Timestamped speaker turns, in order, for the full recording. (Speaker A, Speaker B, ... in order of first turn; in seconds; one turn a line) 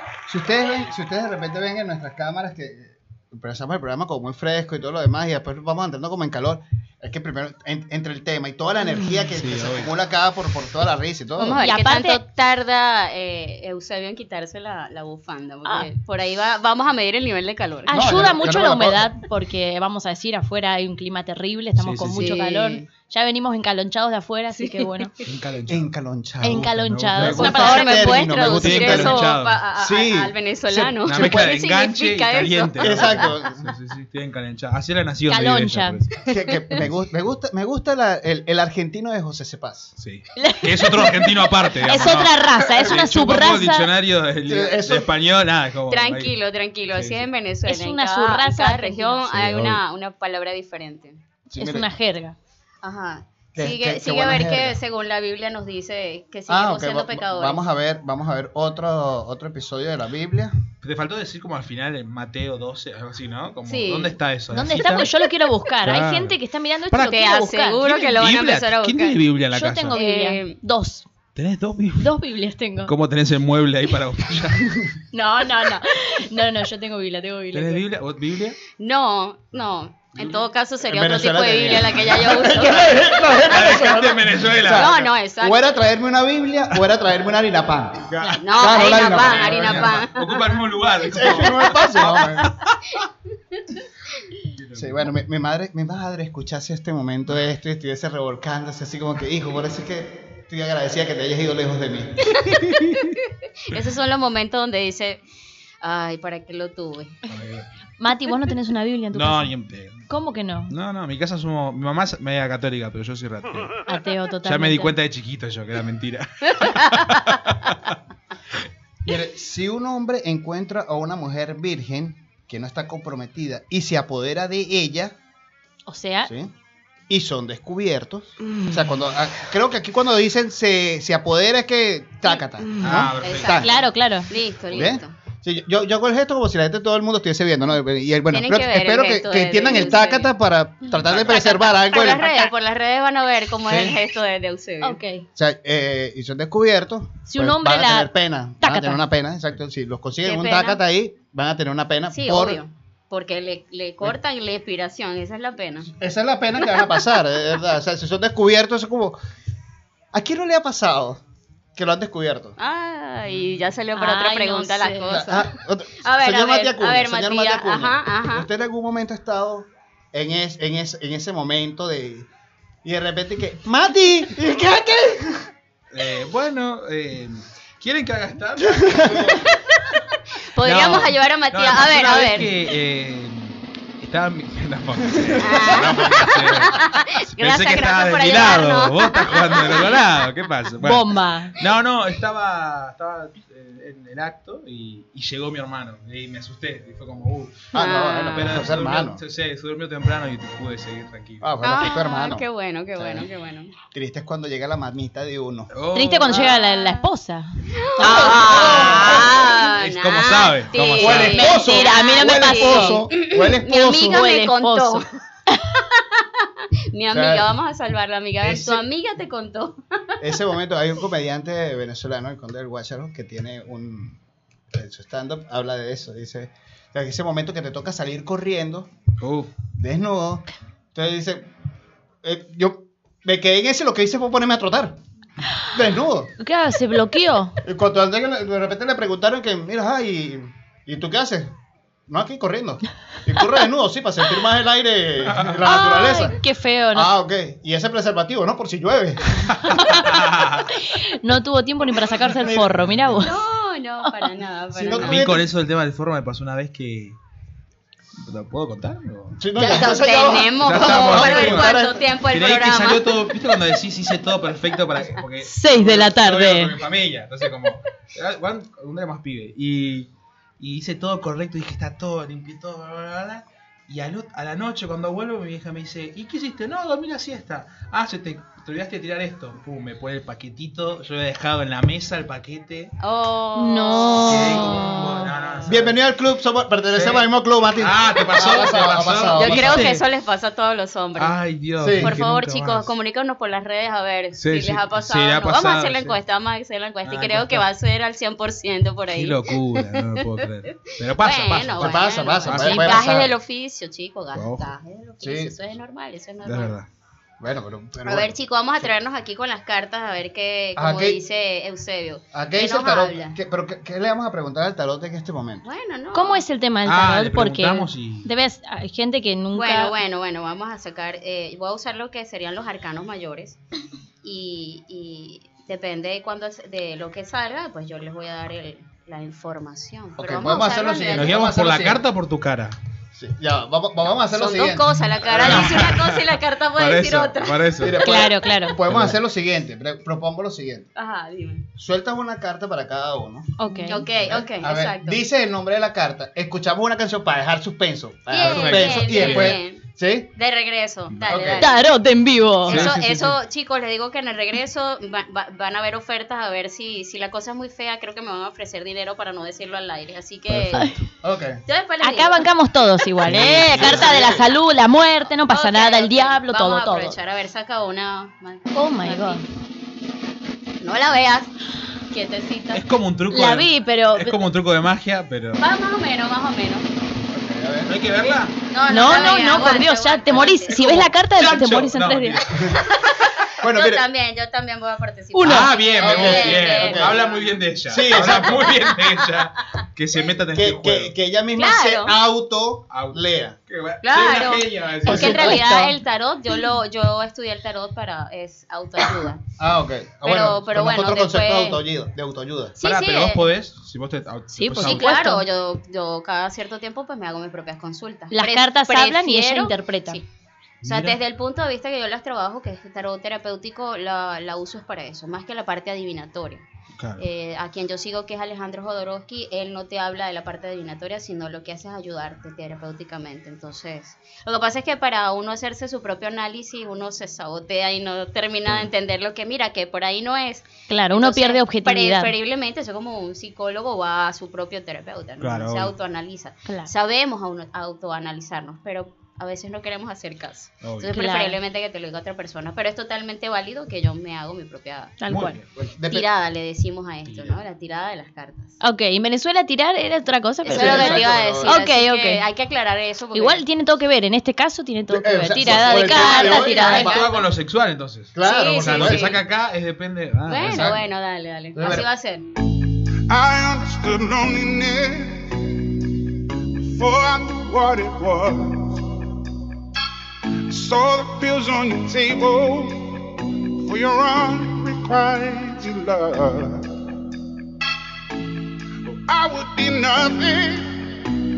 Speaker A: 0.3-11.6
Speaker B: 9.4-9.9
Speaker C: 11.4-18.2
Speaker D: 11.6-12.2
Speaker D: 15.7-15.9
Speaker D: 17.9-25.1
Speaker A: 17.9-19.1
Speaker B: 21.8-22.4
Speaker C: 22.2-22.9
Speaker C: 24.6-25.3
Speaker B: 25.2-25.9
Speaker A: 25.7-31.4
Speaker D: 26.4-28.6
Speaker B: 26.5-27.8
Speaker C: 27.4-33.3
Speaker B: 28.4-29.6
Speaker B: 31.1-36.9
Speaker A: 32.8-33.7
Speaker D: 35.3-36.0
Speaker A: 36.3-40.0
Speaker B: 40.0-46.3
Speaker D: 40.4-41.3
Speaker D: 41.8-43.9
Speaker A: 44.5-45.1
Speaker C: 45.9-51.2
Speaker B: 46.9-47.3
Speaker D: 47.7-49.3
Speaker B: 49.4-49.8
Speaker D: 51.5-52.4
Speaker A: 51.5-51.9
Speaker C: 52.8-57.6
Speaker A: 53.5-54.8
Speaker A: 56.5-60.6
Speaker B: 60.8-65.1
Speaker C: 63.7-64.2
Speaker D: 64.5-67.8
Speaker B: 65.8-66.4
Speaker C: 67.0-69.2
Speaker B: 67.8-70.0
Speaker D: 69.5-71.1
Speaker C: 69.9-70.6
Speaker B: 71.4-72.1
Speaker D: 72.0-72.9
Speaker B: 72.9-74.8
Speaker D: 75.1-77.8
Speaker B: 77.5-78.6
Speaker C: 78.8-83.5
Speaker B: 80.2-80.5
Speaker A: 80.9-89.9
Speaker B: 83.4-85.0
Speaker C: 84.7-85.6
Speaker B: 88.1-93.0
Speaker C: 88.4-90.6
Speaker A: 91.0-92.5
Speaker B: 94.5-95.1
Speaker A: 94.8-102.4
Speaker B: 102.7-103.0
Speaker C: 103.5-105.2
Speaker C: 105.8-107.2
Speaker B: 107.3-107.7
Speaker D: 108.0-109.5
Speaker B: 109.1-110.1
Speaker D: 110.1-110.7
Speaker B: 110.7-113.8
Speaker D: 113.9-114.9
Speaker B: 114.5-118.0
Speaker A: 119.0-125.2
Speaker D: 125.9-126.3
Speaker A: 126.2-126.5
Speaker A: 127.1-133.7
Speaker B: 132.8-133.7
Speaker C: 133.2-133.7
Speaker D: 133.6-134.3
Speaker C: 134.3-135.1
Speaker A: 134.7-142.5
Speaker C: 138.3-140.3
Speaker C: 141.3-145.0
Speaker A: 143.7-144.0
Speaker D: 144.8-145.3
Speaker A: 145.4-152.6
Speaker D: 147.3-149.0
Speaker C: 150.2-150.8
Speaker C: 152.1-155.9
Speaker A: 155.9-159.2
Speaker A: 160.1-161.2
Speaker A: 161.8-162.6
Speaker C: 162.6-165.5
Speaker D: 163.9-165.2
Speaker A: 165.1-172.3
Speaker C: 166.0-168.5
Speaker A: 172.8-175.5
Speaker B: 175.9-179.5
Speaker A: 178.6-179.4
Speaker C: 180.6-182.5
Speaker B: 180.6-201.5
Speaker C: 185.4-190.0
Speaker D: 190.8-191.6
Speaker A: 197.7-199.2
Speaker C: 197.8-198.5
Speaker A: 201.4-202.4
Speaker C: 201.6-203.7
Speaker A: 203.0-203.3
Speaker A: 203.9-205.7
Speaker B: 205.7-206.5
Speaker D: 205.9-209.4
Speaker C: 206.4-207.0
Speaker C: 207.8-215.0
Speaker B: 208.1-211.5
Speaker A: 208.4-208.9
Speaker A: 211.0-214.3
Speaker D: 211.3-213.1
Speaker D: 213.7-215.7
Speaker C: 215.9-219.8
Speaker A: 217.1-217.5
Speaker A: 218.4-218.8
Speaker A: 220.2-224.2
Speaker A: 224.7-228.9
Speaker B: 229.2-229.5
Speaker A: 229.8-231.5
Speaker A: 232.2-235.0
Speaker A: 235.7-236.3
Speaker D: 236.4-237.6
Speaker A: 237.6-241.5
Speaker A: 242.1-246.4
Speaker B: 245.2-245.6
Speaker D: 245.7-247.1
Speaker A: 246.9-249.5
Speaker B: 249.5-250.7
Speaker D: 249.7-250.2
Speaker D: 250.7-253.4
Speaker A: 252.3-252.8
Speaker B: 252.9-253.2
Speaker C: 253.2-255.3
Speaker A: 254.7-255.5
Speaker B: 255.0-257.2
Speaker B: 258.2-259.4
Speaker A: 259.4-262.1
Speaker C: 259.6-263.0
Speaker B: 260.6-282.9
Speaker D: 265.4-266.7
Speaker C: 283.0-284.8
Speaker D: 283.6-285.2
Speaker B: 284.2-286.0
Speaker A: 285.7-289.9
Speaker B: 286.9-290.0
Speaker C: 289.4-291.4
Speaker B: 291.2-292.9
Speaker A: 291.8-292.1
Speaker C: 292.0-300.1
Speaker B: 294.4-296.2
Speaker B: 297.0-297.7
Speaker B: 299.1-303.3
Speaker C: 301.2-306.8
Speaker A: 301.8-303.3
Speaker B: 304.3-304.7
Speaker A: 305.2-305.6
Speaker B: 306.4-306.9
Speaker A: 307.4-308.9
Speaker C: 308.1-313.4
Speaker A: 310.8-311.2
Speaker A: 312.3-315.7
Speaker C: 315.6-316.4
Speaker D: 316.1-319.9
Speaker B: 316.9-318.3
Speaker C: 319.5-323.6
Speaker C: 324.2-331.4
Speaker A: 330.2-332.1
Speaker B: 331.1-332.8
Speaker A: 333.1-335.8
Speaker C: 334.3-337.6
Speaker B: 335.3-338.0
Speaker A: 337.8-340.9
Speaker D: 338.0-338.8
Speaker B: 338.9-339.2
Speaker C: 341.0-341.7
Speaker A: 341.8-343.5
Speaker D: 343.6-344.0
Speaker C: 343.8-345.2
Speaker A: 344.2-350.3
Speaker C: 348.3-349.8
Speaker B: 348.4-349.6
Speaker C: 350.4-351.8
Speaker A: 351.2-351.7
Speaker D: 351.6-352.9
Speaker B: 352.7-353.4
Speaker C: 352.7-360.9
Speaker B: 360.5-361.0
Speaker A: 361.2-361.6
Speaker C: 361.7-362.4
Speaker D: 362.0-367.1
Speaker A: 363.2-364.5
Speaker B: 363.3-364.1
Speaker C: 363.8-364.2
Speaker C: 365.5-369.4
Speaker D: 368.7-369.4
Speaker C: 370.8-371.5
Speaker C: 372.1-372.8
Speaker B: 372.7-375.6
Speaker D: 373.3-374.3
Speaker C: 375.6-376.9
Speaker A: 377.2-377.9
Speaker B: 377.9-378.5
Speaker C: 378.3-381.1
Speaker D: 378.9-382.4
Speaker B: 381.4-383.0
Speaker A: 383.6-384.0
Speaker C: 383.6-387.6
Speaker D: 385.3-385.7
Speaker B: 385.4-391.1
Speaker A: 386.0-387.2
Speaker A: 387.9-388.9
Speaker C: 388.3-389.1
Speaker A: 390.6-393.6
Speaker C: 391.6-392.1
Speaker B: 392.9-395.6
Speaker C: 394.0-399.4
Speaker A: 395.1-395.6
Speaker D: 395.1-396.0
Speaker A: 399.6-402.8
Speaker C: 400.2-401.8
Speaker C: 402.8-403.4
Speaker B: 402.8-405.2
Speaker D: 404.5-405.4
Speaker C: 404.8-410.2
Speaker D: 408.3-410.2
Speaker B: 410.8-411.2
Speaker C: 410.9-416.6
Speaker B: 417.0-417.2
Speaker C: 417.2-445.1
Speaker D: 430.9-432.3
Speaker B: 435.4-435.9
Speaker D: 436.7-436.9
Speaker B: 440.8-441.1
Speaker D: 441.1-441.6
Speaker D: 445.2-445.6
Speaker B: 445.3-445.6
Speaker A: 445.6-446.3
Speaker C: 446.1-448.8
Speaker B: 447.2-447.6
Speaker D: 448.8-452.4
Speaker C: 450.6-453.6
Speaker A: 450.7-451.8
Speaker D: 453.3-457.1
Speaker A: 455.1-457.2
Speaker C: 455.6-457.5
Speaker B: 456.8-460.9
Speaker A: 458.4-459.4
Speaker C: 458.4-459.4
Speaker C: 460.5-462.5
Speaker A: 460.7-461.0
Speaker A: 461.8-462.1
Speaker E: 463.3-465.7
Speaker E: 466.9-469.0
Speaker E: 470.7-473.3
Speaker E: 473.8-476.9
Speaker E: 479.1-481.2